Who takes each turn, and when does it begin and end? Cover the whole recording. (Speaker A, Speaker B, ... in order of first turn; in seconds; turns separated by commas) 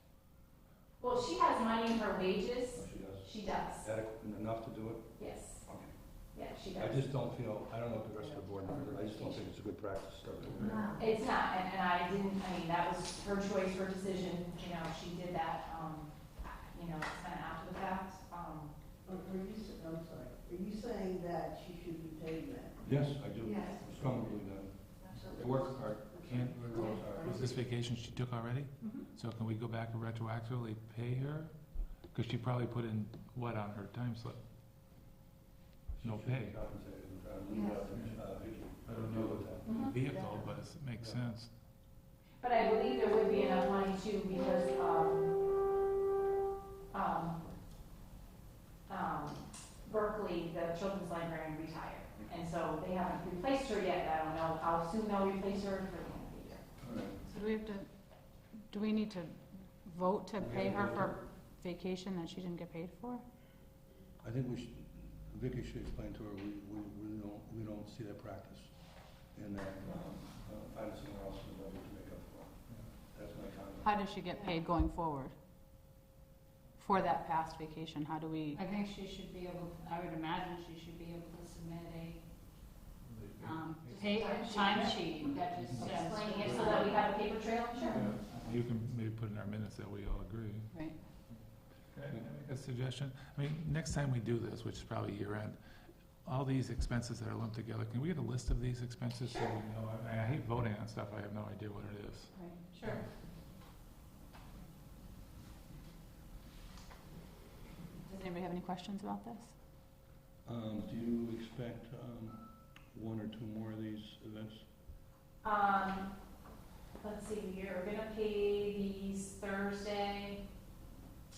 Speaker A: 1.0-3.9, Speaker B: 2.7-5.9, Speaker A: 5.2-5.7, Speaker A: 6.3-7.0, Speaker B: 6.7-11.0, Speaker C: 8.2-9.2, Speaker A: 9.1-9.4, Speaker A: 10.9-16.1, Speaker A: 16.7-18.7, Speaker C: 19.1-22.8, Speaker B: 22.8-27.5, Speaker C: 23.9-24.2, Speaker C: 26.1-27.5, Speaker D: 26.2-31.5, Speaker D: 32.1-34.4, Speaker B: 36.0-39.7, Speaker D: 36.0-36.6, Speaker D: 38.8-41.5, Speaker A: 39.6-40.1, Speaker A: 42.4-45.3, Speaker A: 46.9-47.4, Speaker A: 48.9-56.7, Speaker B: 56.8-57.2, Speaker E: 57.2-57.9, Speaker E: 58.5-63.2, Speaker B: 60.4-61.2, Speaker B: 64.2-68.7, Speaker B: 69.3-73.9, Speaker E: 73.8-75.3, Speaker E: 76.8-78.6, Speaker F: 78.5-82.2, Speaker D: 83.0-84.8, Speaker F: 83.4-84.7, Speaker E: 83.6-85.8, Speaker A: 84.0-88.2, Speaker F: 85.3-87.0, Speaker D: 85.6-85.9, Speaker B: 86.4-86.8, Speaker D: 87.9-90.7, Speaker E: 90.7-91.0, Speaker D: 91.3-95.6, Speaker D: 96.2-103.0, Speaker E: 102.3-102.7, Speaker A: 102.7-103.0, Speaker E: 108.0-109.5, Speaker B: 110.5-114.7, Speaker A: 115.4-116.1, Speaker A: 117.0-120.4